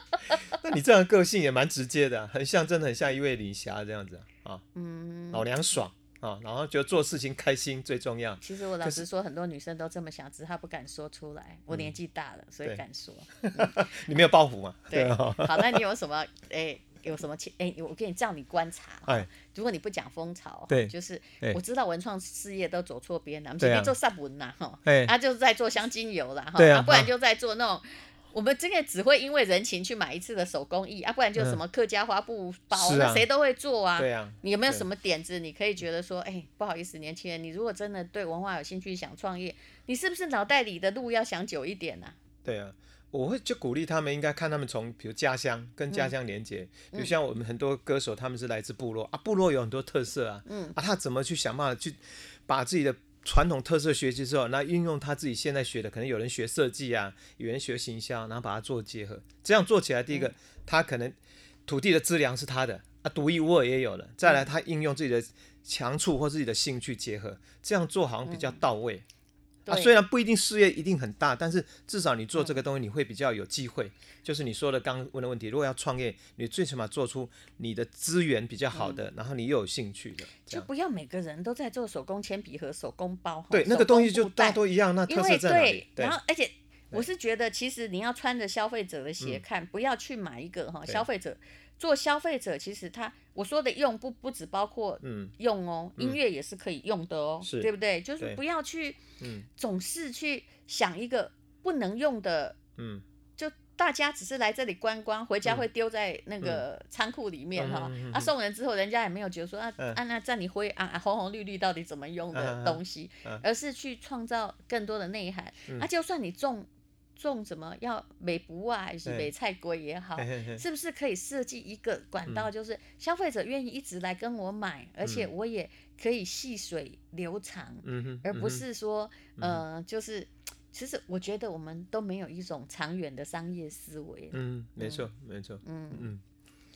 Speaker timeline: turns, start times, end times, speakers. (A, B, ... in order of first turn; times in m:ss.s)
0:00.6-0:04.6 A
0:04.7-0:05.5 B
0:05.3-0:09.0 A
0:08.4-0:14.2 B
0:13.3-0:15.8 A
0:14.9-0:42.2 B
0:20.7-0:21.6 A
0:23.6-0:23.9 A
0:24.8-0:25.1 A
0:26.6-0:27.1 A
0:32.7-0:33.2 A
0:34.0-0:34.9 A
0:42.4-1:09.0 A
0:45.9-0:46.1 B
0:46.9-0:47.1 B
0:50.4-0:50.8 B
1:04.2-1:04.5 B
1:08.2-1:08.7 B
1:09.6-1:10.0 B
1:09.7-1:20.7 A
1:12.3-1:12.6 B
1:18.7-1:19.0 B
1:20.4-1:42.6 B
1:23.5-1:26.2 A
1:35.0-1:35.3 A
1:37.4-1:38.4 A
1:39.2-1:39.5 A
1:42.7-1:43.0 A
1:43.4-2:15.1 B
1:47.5-1:48.3 A
1:52.3-1:53.4 A
1:59.0-1:59.3 A
2:00.2-2:00.6 A
2:05.0-2:05.3 A
2:07.8-2:08.6 A
2:09.3-2:09.6 A
2:14.3-2:16.2 A
2:15.6-2:16.1 B